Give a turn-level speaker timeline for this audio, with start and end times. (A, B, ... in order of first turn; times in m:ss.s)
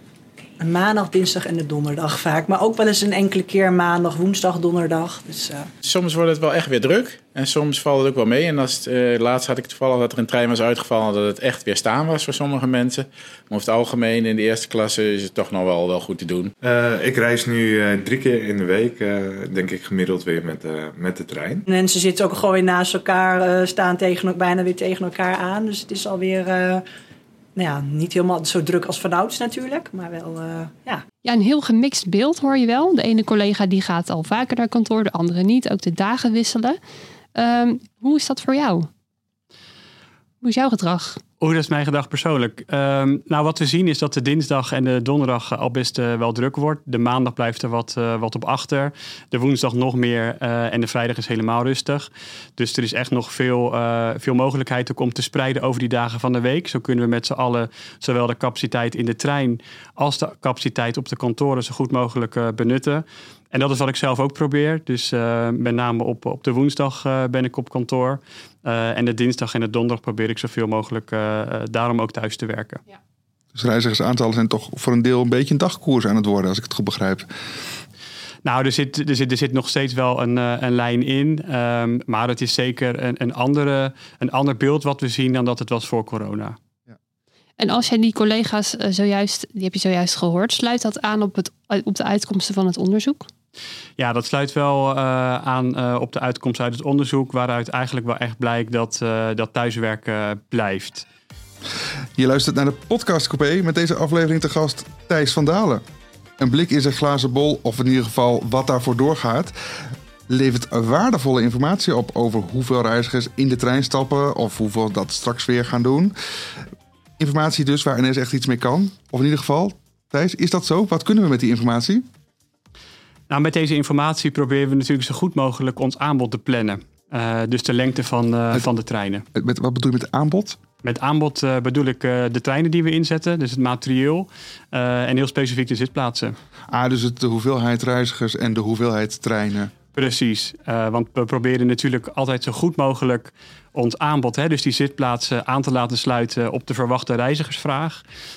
0:00.6-0:05.7 A
0:05.8-0:16.5 B
0:16.6-0:21.6 C
0:21.7-0:26.8 A
0:27.6-0:31.0 A
0:31.2-0:36.8 D
0:37.3-0:38.9 D
0:40.4-0:41.2 D
0:41.4-1:12.8 E
1:13.5-1:17.3 F
1:18.4-1:26.6 E
1:27.6-1:33.3 D
1:34.0-1:41.1 E
1:42.2-1:45.8 F
1:46.4-1:56.1 F
1:57.2-2:02.0 F
2:03.3-2:09.2 E
2:09.3-2:10.6 F
2:10.8-2:16.4 E
2:16.7-2:19.7 F
2:19.9-2:28.0 E